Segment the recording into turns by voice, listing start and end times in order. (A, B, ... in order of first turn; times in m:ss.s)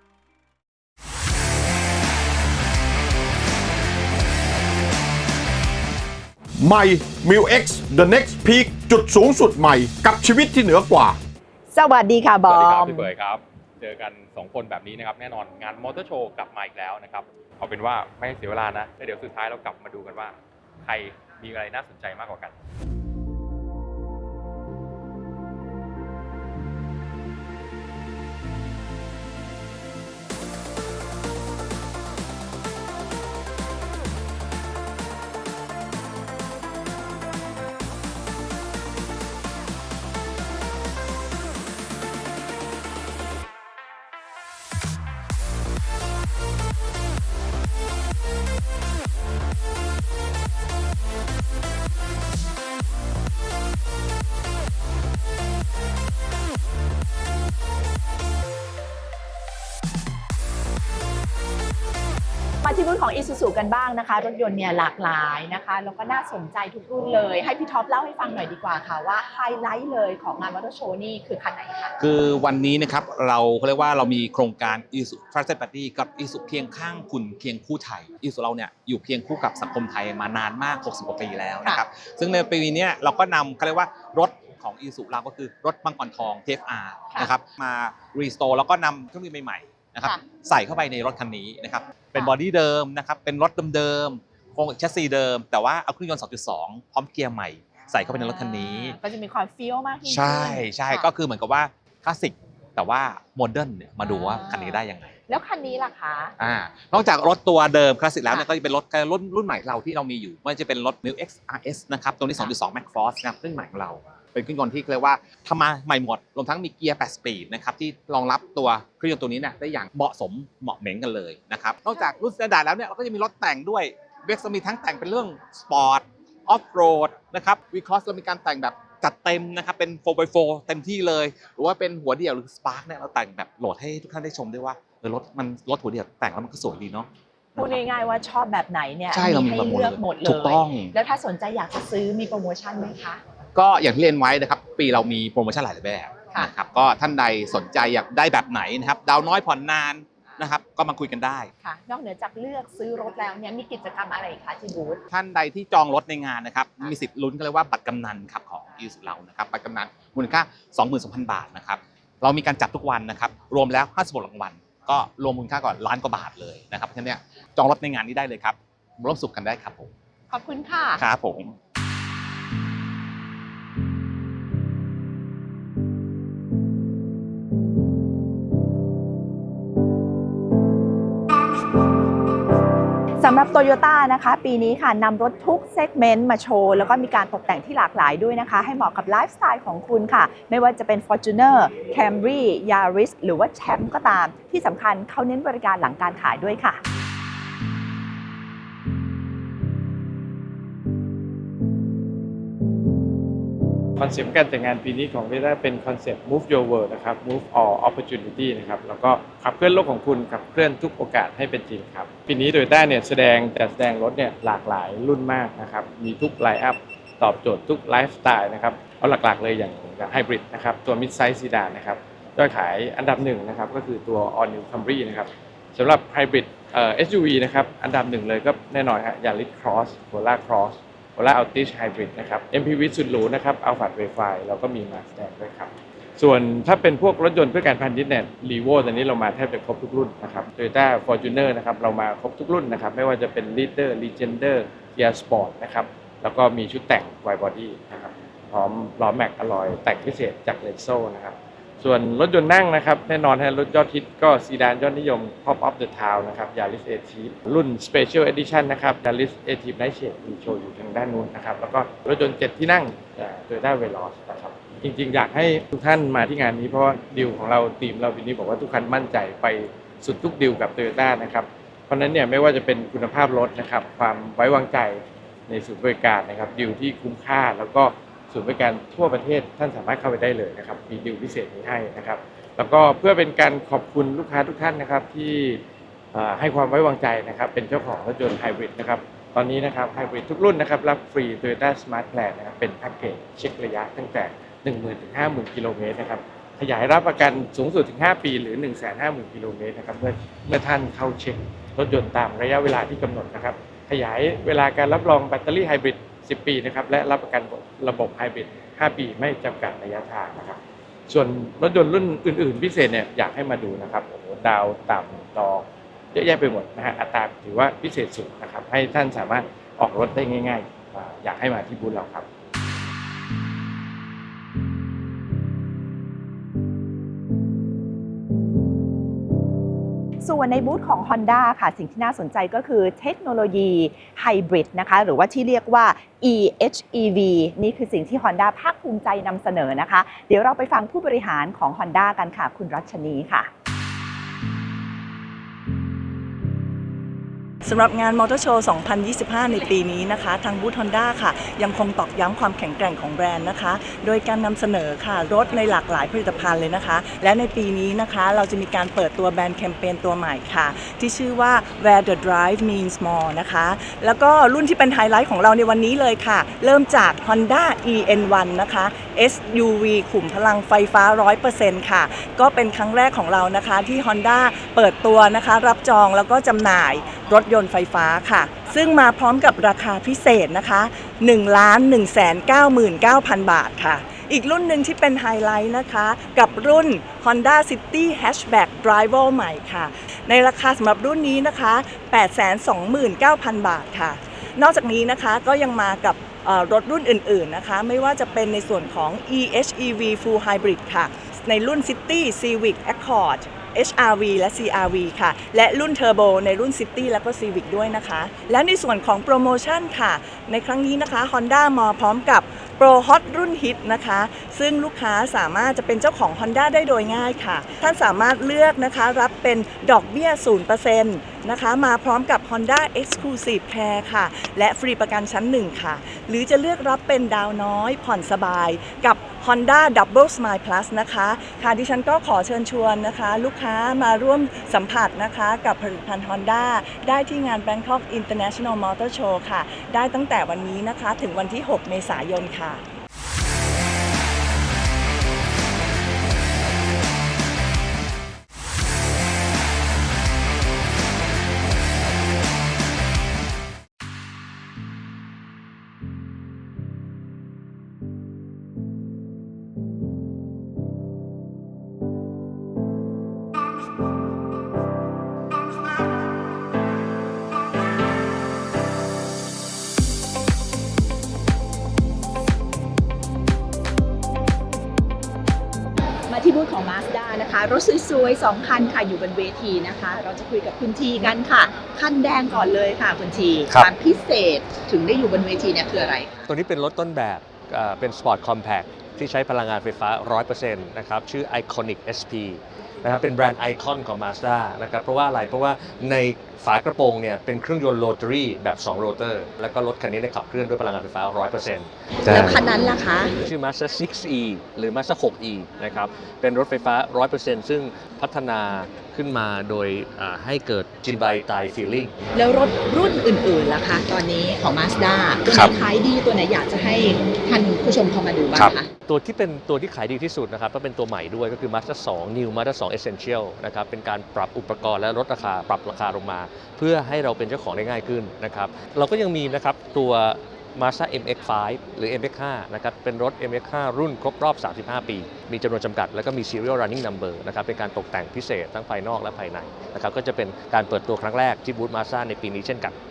0:06.6-0:11.2 A
0:11.7-0:13.1 B
0:12.5-0:22.5 C
1:02.6-1:11.9 B
1:12.0-1:39.0 D
1:37.9-1:41.1 B
1:40.0-1:45.1 D
1:44.0-1:46.3 B
1:46.4-2:17.8 D
2:17.6-2:23.2 B
2:19.1-2:20.9 D
2:23.5-2:31.5 D
2:31.6-2:35.0 B
2:35.1-2:49.9 D
2:50.3-2:51.0 B
2:51.0-2:51.5 D
3:03.2-3:16.8 B
3:24.0-4:45.6 E
4:46.1-5:22.2 E
5:30.2-5:43.5 B
5:47.6-7:22.8 F
7:56.3-8:06.4 B
8:06.5-8:22.6 G
8:22.3-8:23.3 B
8:23.4-8:32.1 G
8:32.3-8:38.9 B
8:39.1-9:02.9 G